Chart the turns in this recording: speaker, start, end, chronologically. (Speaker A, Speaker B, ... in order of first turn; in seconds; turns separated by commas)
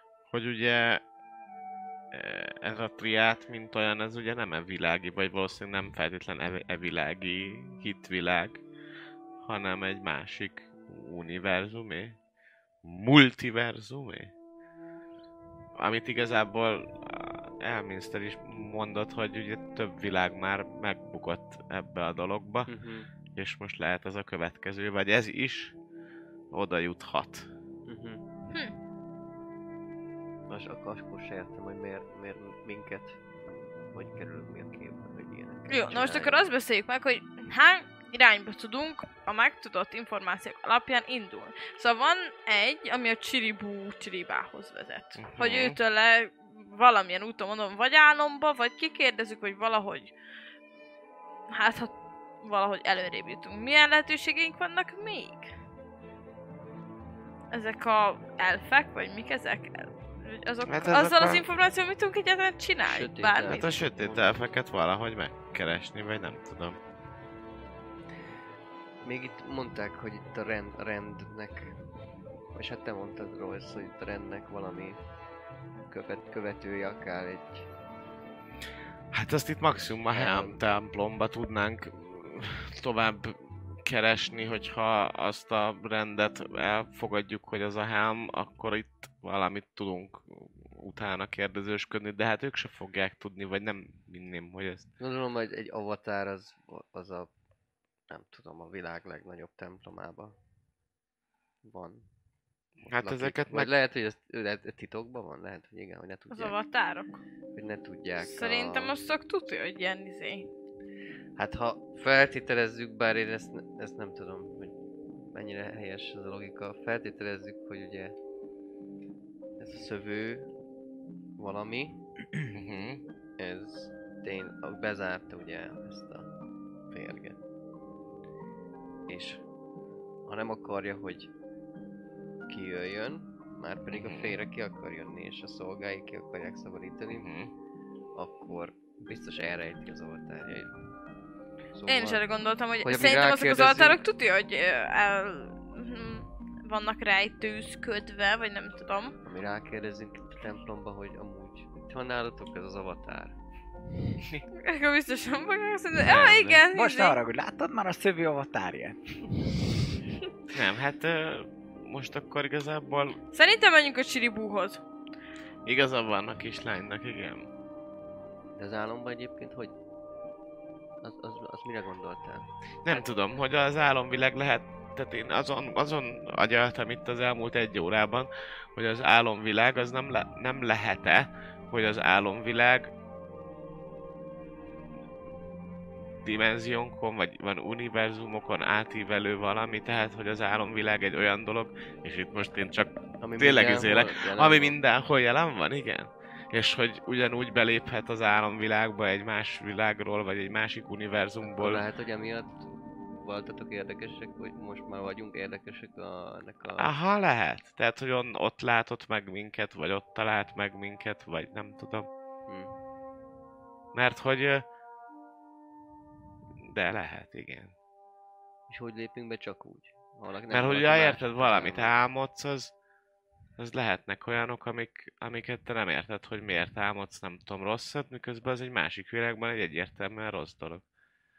Speaker A: 0.3-1.0, Speaker A: 2.1-8.6, Speaker A: 9.4-12.2, Speaker A: 12.8-14.3, Speaker A: 15.8-22.7, Speaker B: 22.6-23.1, Speaker A: 23.4-25.7, Speaker A: 26.5-27.5, Speaker B: 27.9-28.2, Speaker B: 30.5-33.2, Speaker B: 33.9-36.4, Speaker C: 35.7-50.1, Speaker A: 45.2-45.8, Speaker C: 51.5-55.5, Speaker C: 57.5-63.7, Speaker A: 60.6-61.5, Speaker B: 62.8-64.5, Speaker A: 63.4-66.8, Speaker B: 69.0-71.8, Speaker B: 72.5-75.0, Speaker B: 75.9-77.7, Speaker A: 79.1-94.9, Speaker B: 80.1-80.6, Speaker B: 95.0-97.3, Speaker B: 98.1-100.4, Speaker B: 101.6-102.0, Speaker A: 102.9-103.7, Speaker B: 103.0-106.6, Speaker C: 106.3-107.2, Speaker B: 107.5-109.0, Speaker C: 108.2-110.5, Speaker B: 111.4-118.1, Speaker B: 119.6-120.5, Speaker B: 121.4-122.0, Speaker A: 122.5-123.0, Speaker B: 123.4-126.3, Speaker B: 126.9-127.4, Speaker B: 129.1-129.4, Speaker B: 130.3-131.3, Speaker B: 132.5-137.3, Speaker A: 133.9-134.3, Speaker A: 137.1-137.5, Speaker B: 138.1-140.8, Speaker B: 141.7-142.2, Speaker C: 141.9-149.1, Speaker B: 142.8-144.0, Speaker B: 149.2-153.3, Speaker C: 154.6-157.2, Speaker A: 156.0-156.6, Speaker D: 156.7-159.0, Speaker A: 160.5-163.2, Speaker C: 163.3-164.8, Speaker A: 165.7-167.5, Speaker B: 168.6-169.7, Speaker B: 171.0-173.1, Speaker A: 172.8-182.9, Speaker A: 186.2-201.8, Speaker B: 193.2-194.8, Speaker B: 201.4-206.9, Speaker A: 206.8-212.1, Speaker B: 212.5-212.8, Speaker A: 213.9-214.6, Speaker A: 216.6-217.7, Speaker B: 218.7-221.9, Speaker A: 220.5-222.7, Speaker A: 223.6-230.8